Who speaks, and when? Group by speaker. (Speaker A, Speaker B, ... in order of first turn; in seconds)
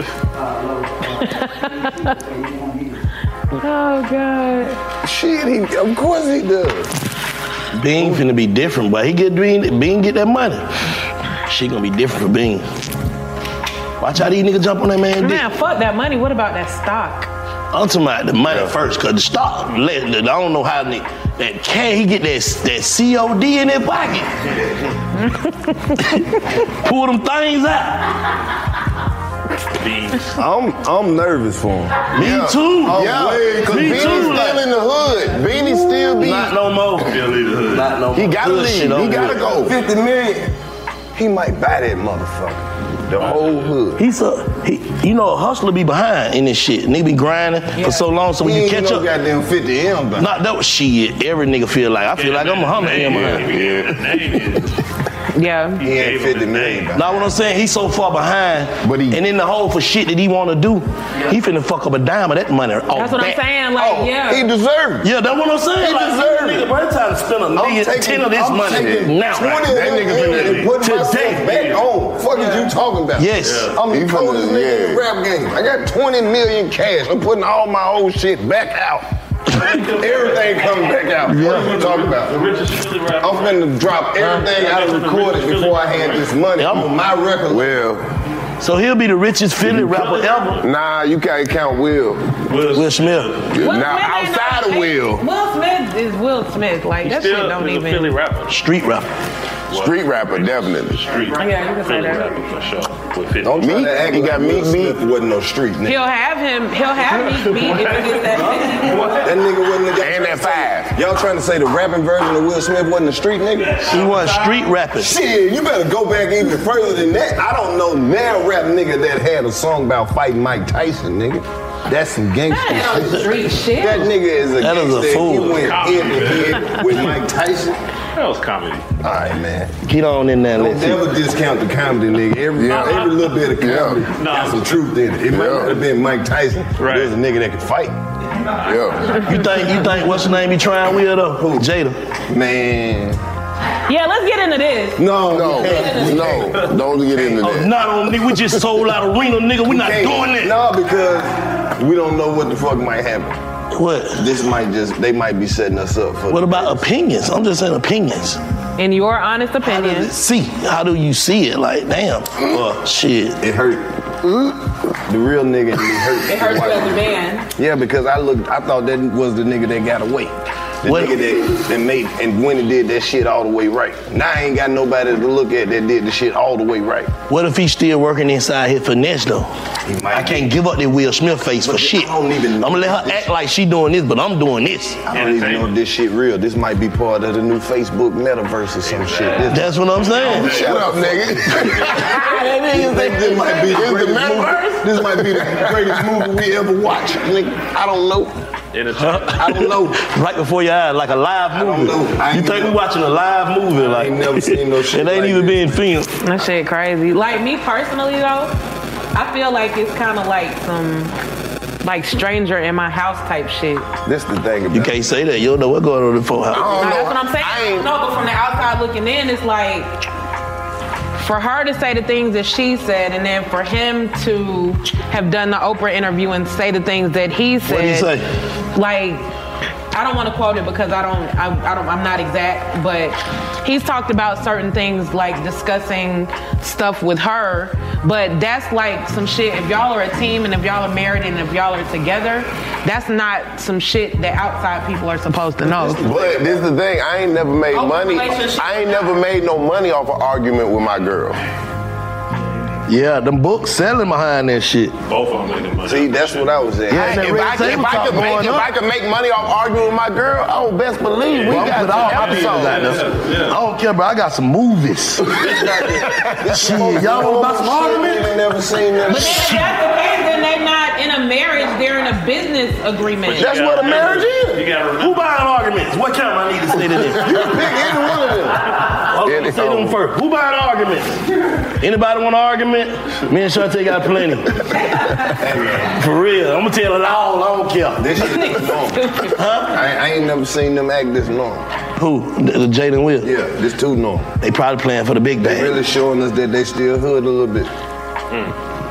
Speaker A: 1.2-2.2, 3.6-4.8, 15.2-17.3, 25.2-26.2, 47.8-48.1, 55.3-55.8, 62.9-64.5, 72.3-72.7, 93.6-98.2, 101.4-102.3, 105.9-109.0, 122.5-124.1, 143.9-146.6, 158.8-160.1, 166.3-167.5, 206.2-208.6, 209.1-211.1, 211.8-213.9, 216.7-219.9, 221.2-228.1, 228.8-229.2, 229.9-246.1, 247.7-249.2, 269.1-273.6, 288.2-289.4
Speaker B: 5.0-6.9, 8.0-8.2, 30.4-32.2, 32.8-34.6, 39.5-40.5, 41.1-44.0, 48.4-50.3, 55.8-57.1, 58.8-59.1, 63.8-65.1, 65.8-66.7, 67.5-79.1, 80.0-82.4, 83.2-87.8, 103.4-106.0, 109.1-113.9, 115.0-127.8, 129.0-129.8, 130.6-138.0, 141.4-141.7, 142.3-143.2, 144.9-146.6, 149.7-153.4, 154.2-156.9, 163.4-164.4, 165.1-177.1, 179.8-180.6, 181.6-183.3, 185.1-198.3, 199.2-200.0, 201.5-202.8, 203.8-205.8, 214.0-215.0, 245.6-246.7, 255.8-258.0, 265.5-269.5, 273.4-274.6, 277.2-278.6, 285.2-286.0, 288.0-291.6, 293.2-294.3, 295.4-297.7
Speaker C: 7.7-12.7, 14.0-15.4, 17.7-24.4, 26.2-28.3, 32.1-34.6, 36.2-39.6, 44.0-49.1, 50.2-53.6, 56.9-63.4, 65.0-69.9, 70.6-71.6, 73.2-73.7, 86.6-86.9, 88.6-90.6, 92.7-93.3, 98.5-99.1, 113.9-115.1, 124.6-125.7, 129.8-131.2, 139.1-142.0, 147.4-150.6, 153.7-154.3, 156.3-158.4, 159.6-163.4, 170.8-171.2, 177.3-179.5, 180.1-185.1, 189.5-190.6, 191.9-193.5, 199.0-206.2, 214.7-216.9, 227.6-228.3, 252.9-254.9, 256.9-258.7, 261.4-265.5, 266.4-268.4, 269.1-269.8, 275.0-277.6, 279.0-284.6, 285.8-288.2, 289.3-289.8, 291.9-293.3, 294.4-295.8
Speaker D: 29.8-30.3, 37.0-38.0, 43.2-43.6, 52.1-54.8, 55.8-57.0, 71.5-71.8, 73.4-73.8, 79.5-86.3, 89.7-90.7, 92.5-93.6, 97.0-98.6, 99.7-103.9, 107.0-109.6, 113.7-114.7, 125.5-127.2, 128.1-128.9, 132.6-133.4, 134.1-134.8, 136.8-137.1, 185.1-185.8, 188.8-192.0, 198.7-199.7, 255.1-256.6, 261.3-263.6, 273.2-275.4
Speaker E: 32.1-36.5, 38.1-39.8, 53.5-54.0, 69.6-70.7, 73.9-75.0, 87.5-88.1, 90.6-92.4, 93.5-95.3, 99.7-101.1, 103.6-105.0, 110.0-111.0, 132.6-134.1, 135.3-135.8, 138.6-139.1, 145.2-147.8, 190.5-191.9, 193.6-196.0, 216.5-217.9, 246.0-251.4, 256.9-262.9, 273.4-274.6, 279.2-280.0